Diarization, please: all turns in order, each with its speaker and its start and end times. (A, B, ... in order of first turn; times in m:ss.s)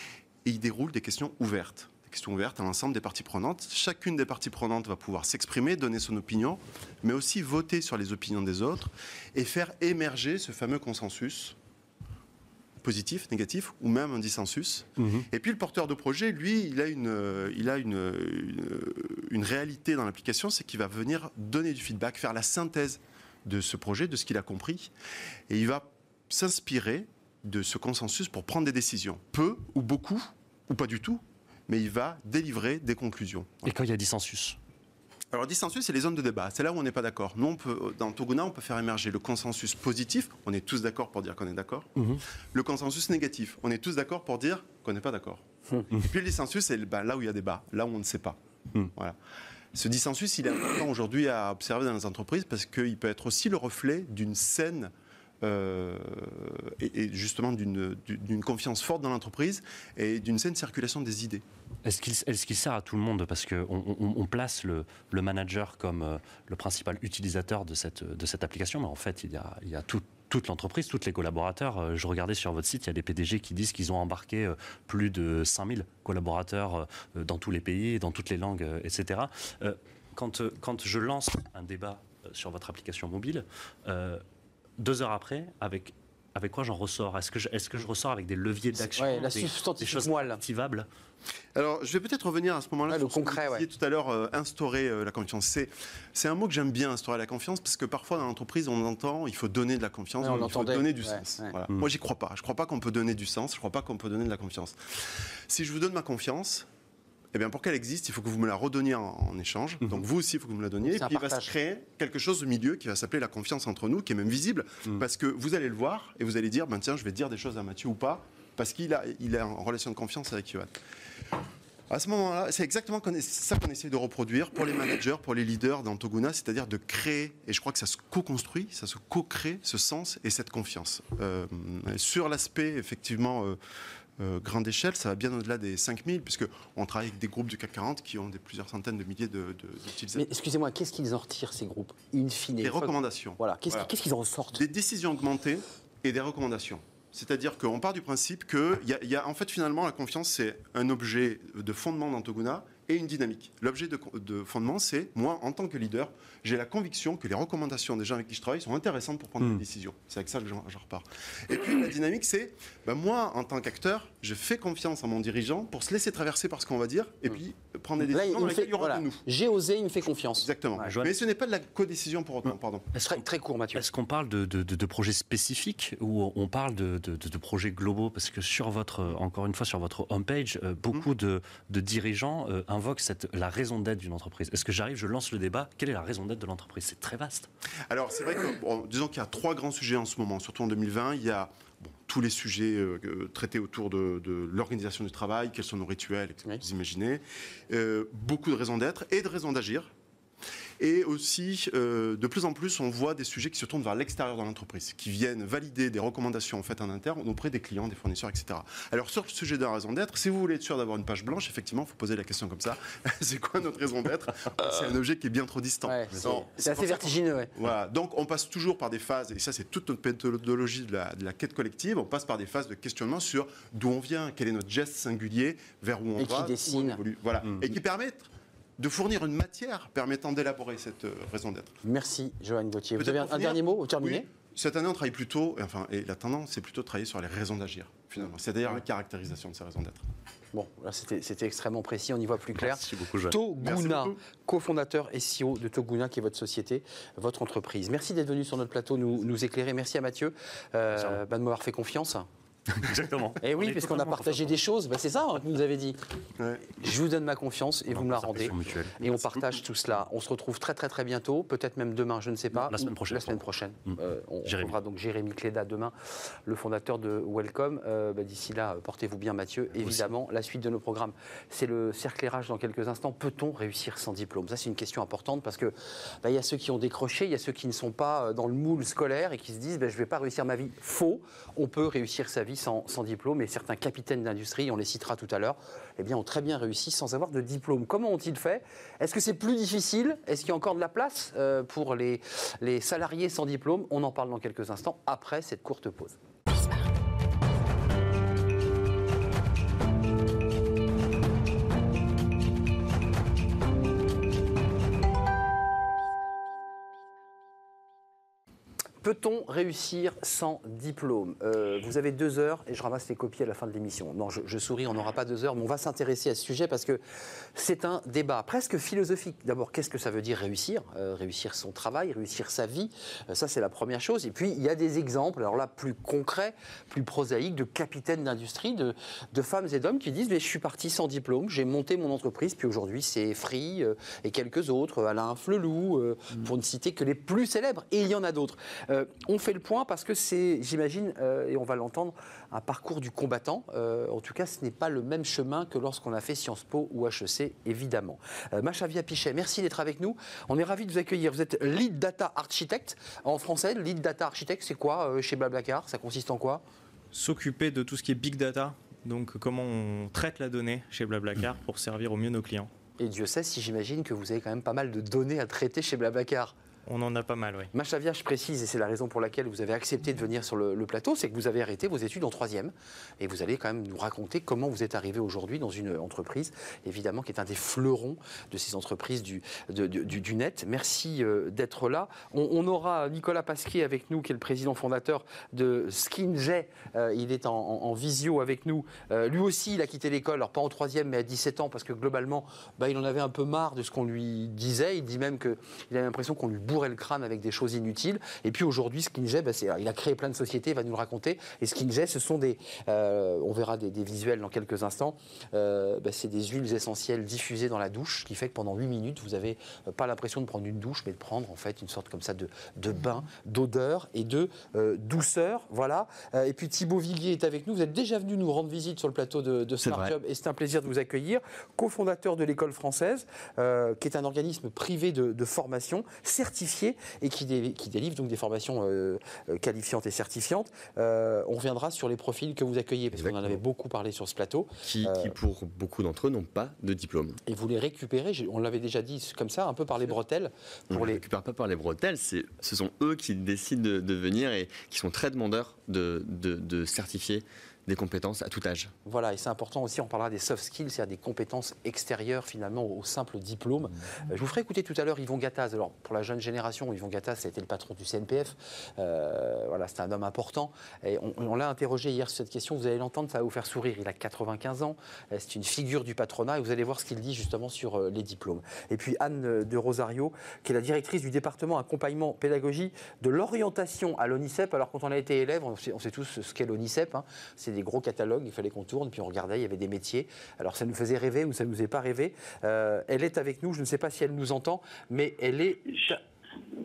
0:00.4-0:11.5 A
0:12.8-0:24.9 A
0:15.0-0:15.2 B
0:25.5-0:33.7 A
0:33.6-0:34.6 B
0:35.3-0:41.9 A
0:42.0-0:42.2 B
0:42.5-0:45.4 A
0:46.0-0:48.4 A
0:49.7-1:01.4 A
1:01.8-1:24.2 B
1:24.8-1:30.8 B
1:28.9-1:30.4 C
1:31.5-1:46.7 A
1:32.9-1:33.6 C
1:40.2-1:41.5 C
1:47.3-2:00.7 A
1:50.8-1:51.5 C
2:01.9-2:13.6 A
2:14.2-2:20.2 A
2:20.2-2:24.6 C
2:22.6-2:23.9 A
2:24.5-2:49.2 A
2:48.1-2:50.9 C
2:50.4-2:52.9 A
2:50.8-2:51.2 B
2:53.0-2:53.8 C
2:53.8-3:07.5 B
3:07.9-3:19.9 A
3:20.8-3:51.7 A
3:35.8-3:37.5 C
3:46.2-3:47.0 C
3:51.8-3:54.2 C
3:53.0-4:00.0 A
4:00.5-4:12.2 C
4:02.5-4:03.4 B
4:03.6-4:04.2 A
4:10.9-4:11.2 B
4:12.7-4:14.5 B
4:13.4-4:16.0 C
4:16.4-4:16.6 A
4:16.8-4:25.9 C
4:17.9-4:19.4 B
4:22.5-4:24.8 B
4:26.4-4:56.2 C
4:29.8-4:30.1 B
5:09.0-5:17.0 C
5:17.5-5:56.6 C
5:57.1-6:02.7 D
6:03.0-6:06.5 C
6:06.9-6:07.7 D
6:07.7-7:15.3 C
6:59.8-7:00.1 E
7:13.1-7:13.6 E
7:14.8-7:17.4 E
7:17.4-7:21.2 C
7:20.9-7:28.9 E
7:29.0-8:06.2 C